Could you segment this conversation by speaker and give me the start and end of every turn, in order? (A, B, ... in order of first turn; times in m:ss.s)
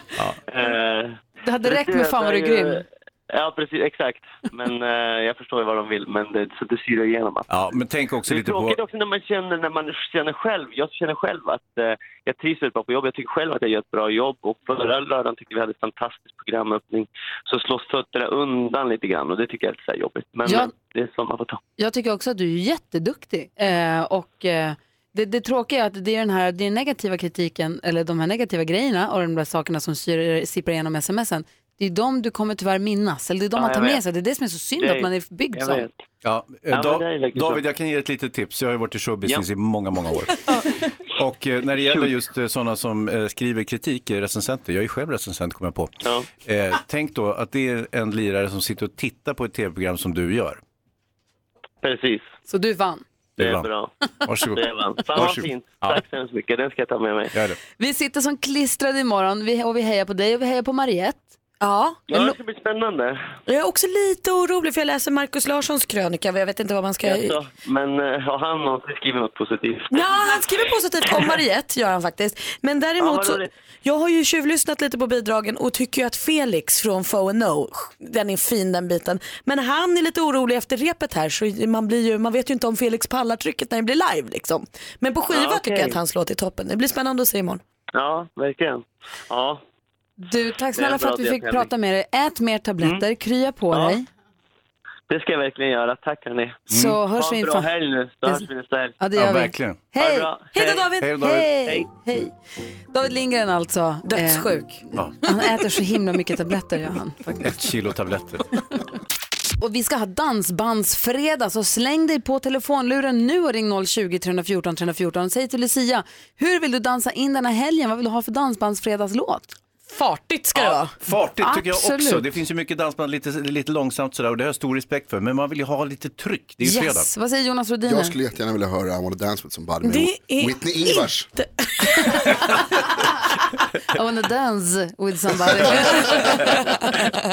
0:00.4-0:07.6 A
0:01.4-0:02.8 B
0:07.5-0:08.8 C
0:08.2-0:21.6 A
0:20.4-0:20.7 B
0:21.8-0:35.8 B
0:33.6-0:34.0 A
0:34.8-0:35.9 A
0:36.2-0:50.6 C
0:36.7-0:37.6 A
0:41.8-0:42.1 A
0:51.8-0:52.3 A
0:52.5-0:53.0 B
0:53.4-0:53.7 C
0:53.4-0:53.9 A
0:54.2-0:54.6 C
0:54.5-0:57.3 A
0:55.1-0:56.0 C
0:57.3-0:57.6 C
0:57.8-1:01.3 B
1:01.6-1:02.0 D
1:02.1-1:03.3 A
1:03.5-1:07.4 D
1:07.0-1:10.0 A
1:09.9-1:27.6 D
1:13.0-1:13.5 A
1:25.3-1:26.0 A
1:27.9-1:29.6 A
1:30.2-1:34.0 B
1:30.7-1:31.7 A
1:33.7-1:34.0 A
1:35.1-1:39.0 A
1:36.7-1:37.7 B
1:36.7-1:37.0 C
1:39.0-1:40.3 B
1:39.1-1:39.9 C
1:40.0-1:40.9 A
1:40.5-1:41.1 D
1:41.0-1:41.5 C
1:41.1-1:42.3 B
1:42.9-1:47.5 B
1:44.1-1:44.7 D
1:47.4-1:48.4 C
1:49.6-1:59.6 B
1:59.9-2:00.9 D
2:00.5-2:07.1 C
2:01.4-2:02.2 B
2:06.6-2:08.1 B
2:07.8-2:11.3 E
2:09.8-2:12.1 D
2:13.9-2:17.0 B